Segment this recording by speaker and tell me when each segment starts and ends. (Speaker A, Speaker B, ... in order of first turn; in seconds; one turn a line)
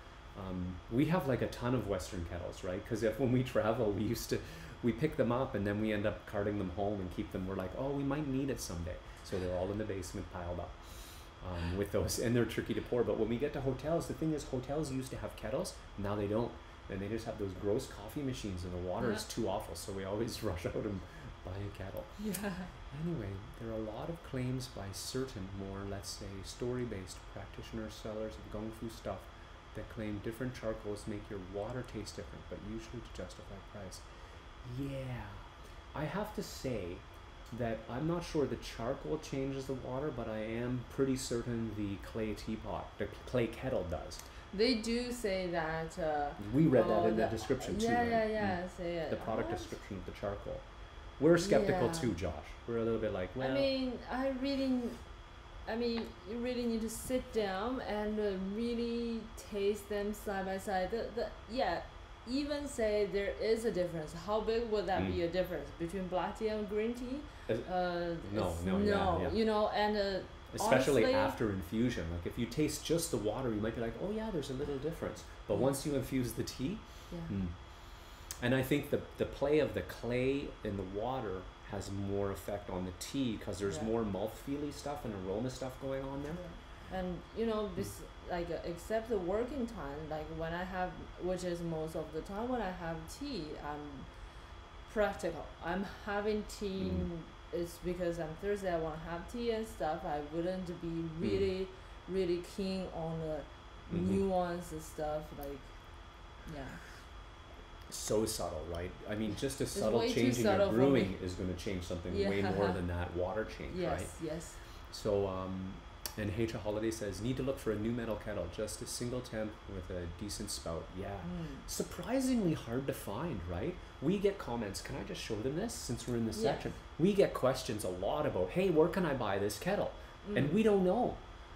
Speaker A: 0.3-10.8
Speaker A: 11.4-22.1
Speaker B: 19.0-19.2
Speaker B: 22.2-22.7
Speaker A: 22.9-34.0
Speaker A: 34.6-44.2
Speaker B: 44.5-49.8
Speaker A: 46.4-48.6
Speaker A: 49.1-50.6
Speaker A: 51.2-53.7
Speaker B: 51.4-52.1
Speaker B: 53.4-55.0
Speaker B: 55.7-71.4
Speaker A: 64.9-65.2
Speaker A: 68.2-69.4
Speaker A: 70.5-77.5
Speaker B: 75.5-75.8
Speaker B: 77.1-77.4
Speaker A: 78.4-86.4
Speaker B: 86.4-94.1
Speaker B: 94.9-105.7
Speaker A: 96.8-97.1
Speaker A: 101.2-101.5
Speaker A: 103.9-104.2
Speaker B: 106.5-106.8
Speaker A: 107.9-114.1
Speaker B: 109.7-111.1
Speaker B: 112.1-112.8
Speaker B: 113.7-114.6
Speaker A: 114.9-131.2
Speaker B: 121.2-121.6
Speaker B: 126.3-126.6
Speaker B: 130.2-130.6